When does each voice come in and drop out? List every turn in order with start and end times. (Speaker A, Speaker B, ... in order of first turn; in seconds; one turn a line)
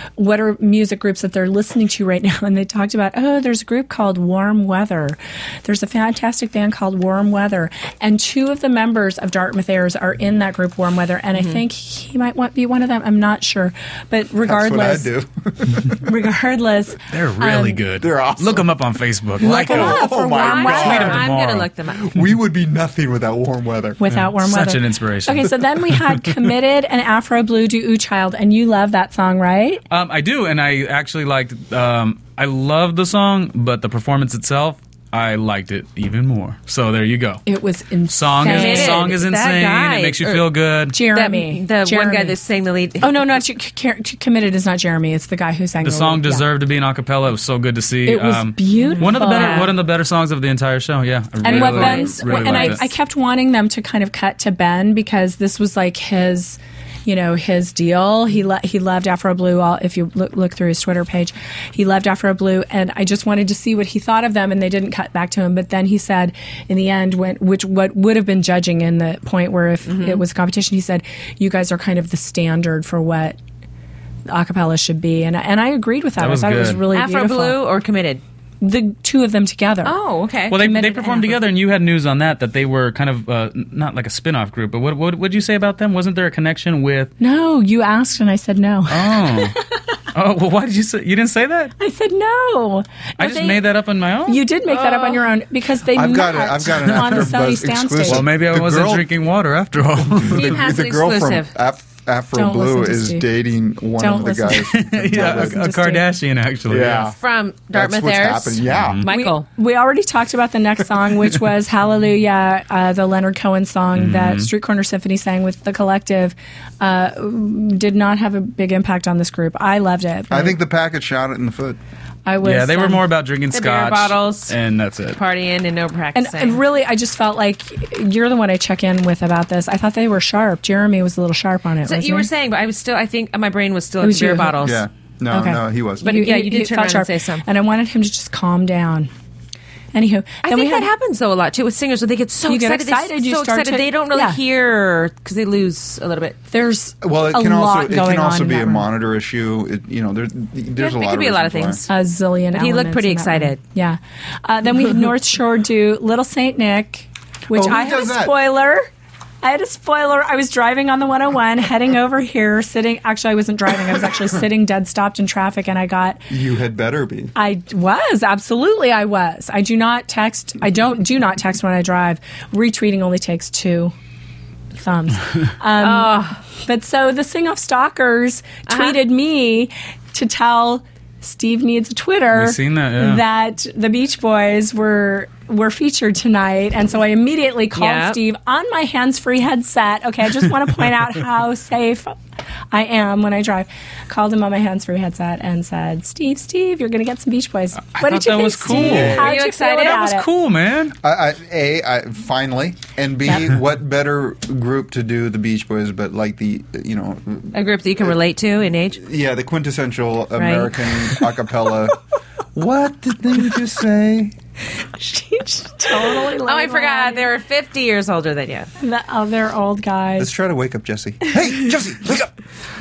Speaker A: 0.2-15.1
Speaker B: 11.3-11.6
Speaker C: 14.4-15.9
Speaker A: 16.0-17.8
Speaker D: 17.1-21.7
Speaker C: 18.0-18.8
Speaker C: 19.4-21.2
Speaker A: 19.4-21.2
Speaker B: 19.9-22.1
Speaker C: 21.9-24.0
Speaker A: 24.0-29.8
Speaker D: 24.1-26.3
Speaker D: 29.9-37.4
Speaker A: 37.5-39.1
Speaker D: 38.1-41.0
Speaker B: 38.4-43.4
Speaker A: 40.9-42.4
Speaker A: 43.0-46.5
Speaker D: 45.8-52.9
Speaker A: 48.0-49.7
Speaker B: 48.8-49.7
Speaker A: 51.4-73.4
Speaker B: 51.4-52.9
Speaker B: 69.8-70.2
Speaker A: 74.3-77.6
Speaker D: 76.2-76.8
Speaker B: 76.9-78.2
Speaker A: 78.6-80.0
Speaker B: 79.8-80.6
Speaker D: 80.5-87.1
Speaker A: 80.5-81.4
Speaker A: 87.2-89.6
Speaker D: 88.9-89.6
Speaker D: 90.1-91.7
Speaker A: 91.8-93.6
Speaker D: 93.2-94.4
Speaker A: 94.2-98.2
Speaker B: 94.7-95.3
Speaker C: 95.9-99.1
Speaker D: 98.1-100.5
Speaker C: 100.0-105.6
Speaker B: 100.3-101.5
Speaker A: 102.3-103.3
Speaker A: 104.0-106.0
Speaker D: 104.7-107.1
Speaker C: 106.7-107.2
Speaker B: 107.1-109.5
Speaker C: 107.7-109.0
Speaker D: 108.7-109.0
Speaker A: 109.0-120.6
Speaker D: 114.0-114.5
Speaker C: 120.3-121.8
Speaker A: 122.2-123.0
Speaker D: 122.4-125.2
Speaker B: 123.5-124.6
Speaker B: 125.1-126.6
Speaker A: 126.1-132.3
Speaker B: 131.8-134.8
Speaker A: 134.0-134.6
Speaker C: 134.6-136.1
Speaker A: 135.3-139.1
Speaker B: 136.0-137.5
Speaker A: 139.9-140.9
Speaker B: 140.4-146.4
Speaker A: 142.5-144.4
Speaker A: 146.5-148.9
Speaker C: 147.0-151.8
Speaker B: 150.8-151.9
Speaker A: 151.9-158.9
Speaker B: 152.5-153.6
Speaker C: 157.5-158.4
Speaker A: 159.4-166.2
Speaker C: 166.3-167.3
Speaker A: 167.3-173.9
Speaker A: 174.8-192.1
Speaker B: 175.8-176.4
Speaker B: 178.7-179.0
Speaker D: 182.3-183.2
Speaker B: 187.7-188.2
Speaker A: 192.7-200.3
Speaker D: 197.9-200.9
Speaker B: 198.7-200.1
Speaker C: 198.7-199.2
Speaker C: 201.0-208.1
Speaker B: 207.5-209.0
Speaker C: 208.9-212.0
Speaker B: 210.3-211.2
Speaker C: 212.5-214.3
Speaker A: 215.0-217.3
Speaker B: 215.9-218.7
Speaker A: 218.8-220.3
Speaker C: 220.2-222.3